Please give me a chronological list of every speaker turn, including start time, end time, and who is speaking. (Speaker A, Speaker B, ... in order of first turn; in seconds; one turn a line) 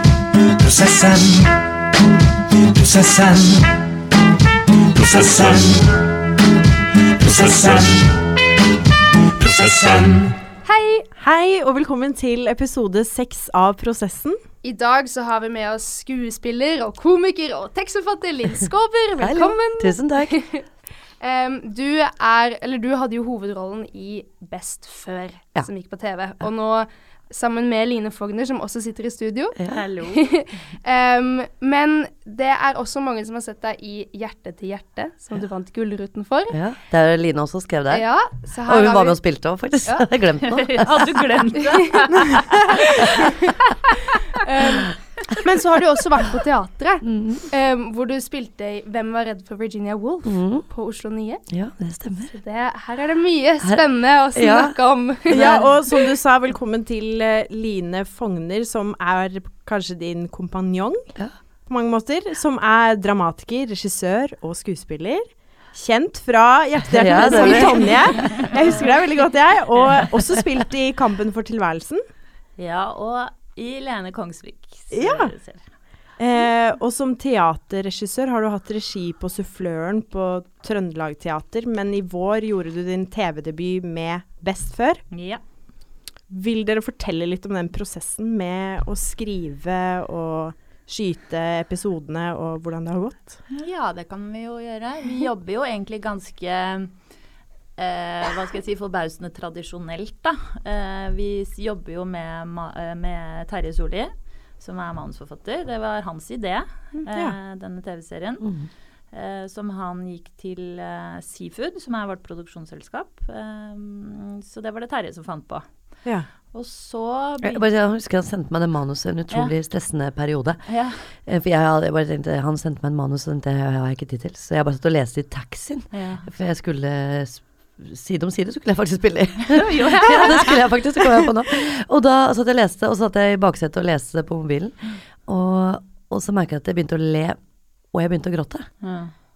Speaker A: 0.6-1.6
Speaker A: 2.7-3.7
Speaker A: 4.9-5.9
Speaker A: 7.2-8.2
Speaker A: 9.4-10.4
Speaker B: 10.7-11.1
Speaker C: 11.2-14.4
Speaker B: 14.6-20.6
Speaker D: 19.2-20.6
Speaker B: 21.2-36.6
Speaker E: 29.7-30.4
Speaker D: 36.5-41.2
Speaker B: 37.9-39.2
Speaker E: 40.4-43.3
Speaker B: 44.4-51.5
Speaker C: 45.4-46.0
Speaker D: 47.0-47.5
Speaker D: 50.2-50.7
Speaker D: 51.5-52.3
Speaker B: 52.3-56.1
Speaker D: 53.6-54.8
Speaker C: 55.3-61.1
Speaker C: 61.7-72.0
Speaker D: 66.9-67.9
Speaker B: 67.3-68.3
Speaker E: 69.7-70.0
Speaker E: 72.6-75.7
Speaker C: 74.9-75.3
Speaker C: 76.2-85.1
Speaker E: 85.1-85.4
Speaker C: 86.3-93.4
Speaker E: 93.5-97.1
Speaker E: 97.8-108.5
Speaker C: 107.1-107.4
Speaker D: 108.4-108.7
Speaker E: 109.1-117.6
Speaker D: 117.4-137.4
Speaker E: 120.7-121.1
Speaker E: 125.9-126.3
Speaker E: 129.5-130.6
Speaker D: 137.9-138.7
Speaker E: 138.8-139.1